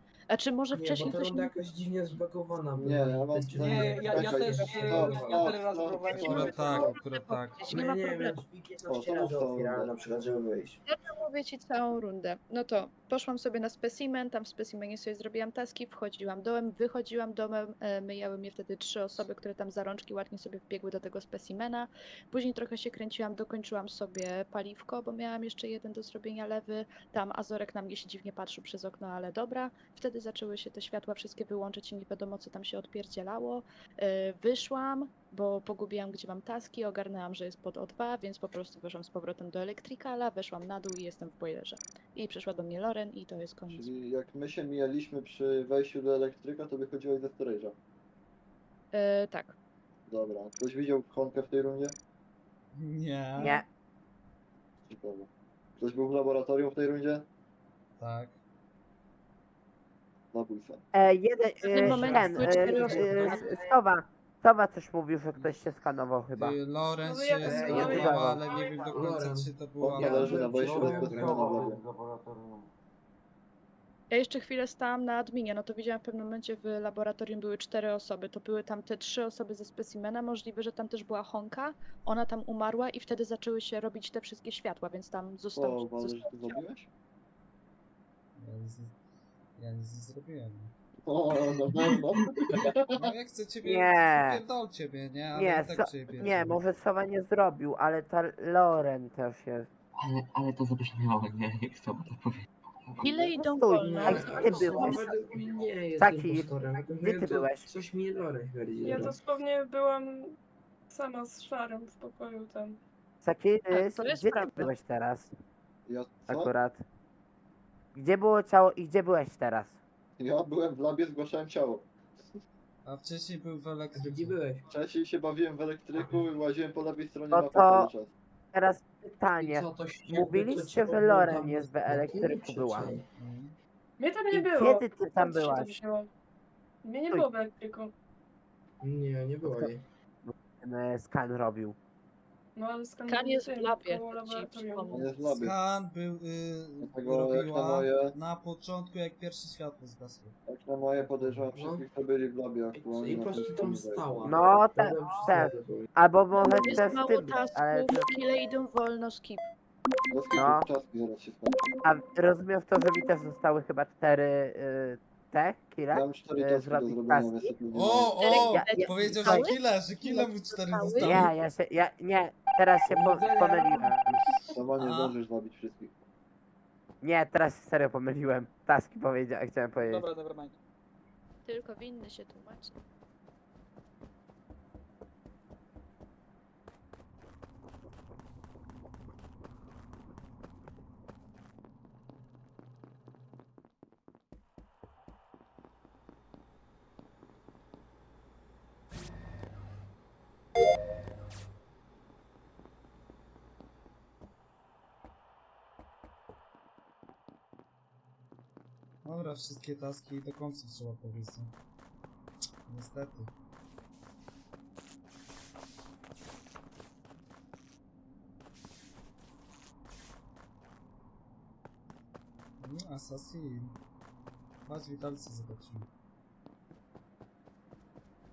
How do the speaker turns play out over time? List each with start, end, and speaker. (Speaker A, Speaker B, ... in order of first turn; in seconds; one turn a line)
Speaker A: 0.3-1.5
Speaker B: 0.7-5.6
Speaker C: 2.8-7.0
Speaker D: 3.6-6.9
Speaker E: 6.2-7.7
Speaker A: 6.4-8.4
Speaker B: 7.7-10.8
Speaker C: 8.9-10.4
Speaker A: 10.9-43.9
Speaker C: 43.7-47.8
Speaker A: 48.9-49.5
Speaker C: 50.1-52.0
Speaker E: 52.8-53.6
Speaker F: 53.4-53.6
Speaker C: 54.9-57.3
Speaker E: 58.0-58.3
Speaker C: 60.3-60.8
Speaker F: 60.9-66.6
Speaker A: 61.6-63.5
Speaker B: 61.8-63.7
Speaker E: 65.3-65.7
Speaker E: 66.3-70.3
Speaker G: 67.0-69.1
Speaker B: 67.5-71.7
Speaker F: 67.5-68.4
Speaker C: 69.8-71.8
Speaker H: 70.7-72.7
Speaker A: 74.1-86.6
Speaker C: 85.5-86.9
Speaker E: 88.4-89.0
Speaker E: 89.6-90.7
Speaker C: 91.1-93.1
Speaker E: 92.9-96.6
Speaker F: 93.6-94.4
Speaker F: 95.3-99.7
Speaker I: 100.0-102.4
Speaker A: 103.0-105.2
Speaker F: 103.3-105.1
Speaker B: 103.8-109.2
Speaker F: 106.0-107.7
Speaker G: 108.8-110.3
Speaker G: 110.9-112.8
Speaker F: 113.2-115.3
Speaker A: 113.7-114.7
Speaker C: 115.9-116.5
Speaker F: 116.3-116.8
Speaker F: 118.0-119.8
Speaker C: 120.2-121.9
Speaker E: 122.8-124.4
Speaker B: 123.9-124.7
Speaker C: 124.7-128.1
Speaker B: 125.9-126.2
Speaker F: 127.3-127.9
Speaker F: 128.5-132.9
Speaker B: 129.4-133.1
Speaker E: 133.2-133.6
Speaker G: 134.0-136.1
Speaker F: 134.3-135.8
Speaker G: 136.8-137.9
Speaker B: 138.8-139.8
Speaker F: 139.4-139.7
Speaker F: 140.2-141.8
Speaker G: 142.6-145.1
Speaker A: 143.1-145.1
Speaker C: 144.9-145.6
Speaker E: 145.4-150.4
Speaker C: 146.8-148.2
Speaker C: 150.5-154.3
Speaker E: 150.9-151.5
Speaker B: 151.5-151.8
Speaker B: 152.7-155.9
Speaker F: 154.2-158.1
Speaker A: 156.4-159.4
Speaker C: 160.1-161.8
Speaker F: 160.4-160.7
Speaker F: 161.8-167.5
Speaker C: 165.9-168.4
Speaker E: 167.7-171.3
Speaker A: 168.2-171.3
Speaker F: 168.5-169.5
Speaker F: 171.0-174.2
Speaker B: 172.9-173.9
Speaker C: 174.5-176.0
Speaker E: 174.8-175.2
Speaker F: 177.0-180.0
Speaker D: 179.8-180.6
Speaker A: 181.5-182.8
Speaker E: 209.0-211.5
Speaker E: 212.7-213.3
Speaker E: 222.6-223.8
Speaker E: 224.7-225.9